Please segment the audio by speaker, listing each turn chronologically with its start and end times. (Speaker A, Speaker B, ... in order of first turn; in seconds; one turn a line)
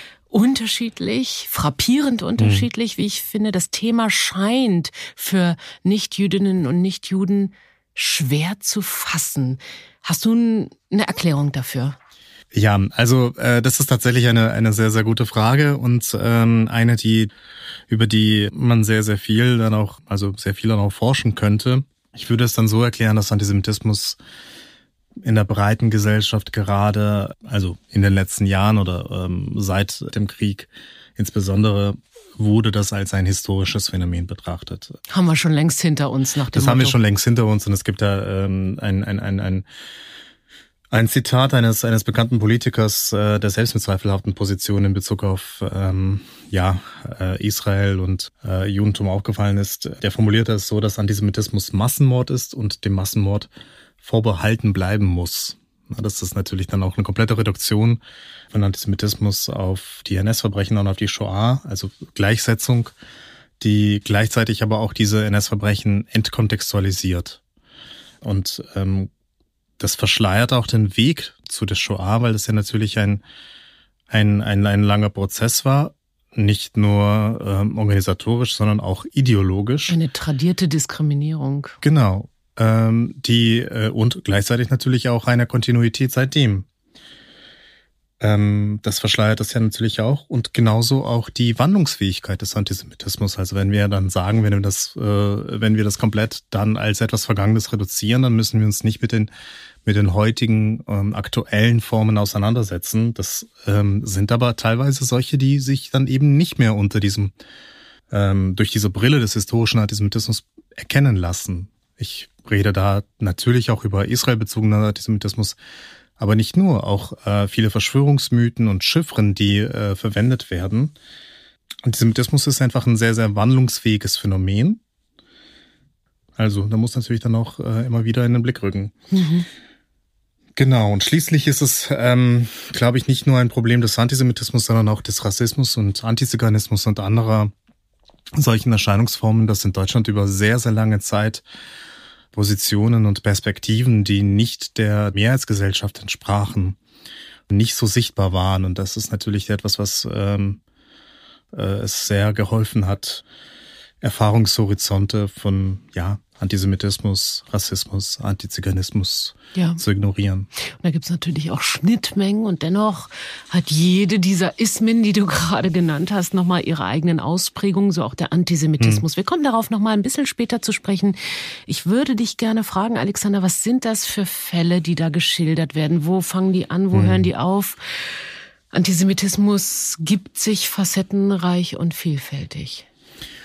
Speaker A: 0.3-12.0
Speaker B: 2.4-2.7
Speaker B: 12.5-17.3
Speaker B: 17.9-24.2
Speaker B: 25.2-35.0
Speaker A: 35.1-37.0
Speaker B: 36.5-39.6
Speaker B: 40.9-58.0
Speaker B: 58.5-62.9
Speaker B: 63.6-67.4
Speaker B: 68.2-69.1
Speaker B: 69.8-73.2
Speaker B: 74.1-80.0
Speaker A: 79.9-81.8
Speaker B: 81.8-86.7
Speaker B: 88.2-99.3
Speaker B: 99.8-107.3
Speaker B: 108.1-115.6
Speaker B: 116.2-120.9
Speaker B: 121.8-124.8
Speaker B: 126.4-128.9
Speaker A: 129.1-129.4
Speaker B: 130.6-137.5
Speaker B: 138.3-141.4
Speaker B: 142.3-146.8
Speaker B: 147.5-150.6
Speaker B: 151.5-153.2
Speaker B: 154.0-160.5
Speaker A: 159.5-159.8
Speaker A: 160.7-182.9
Speaker B: 176.9-177.3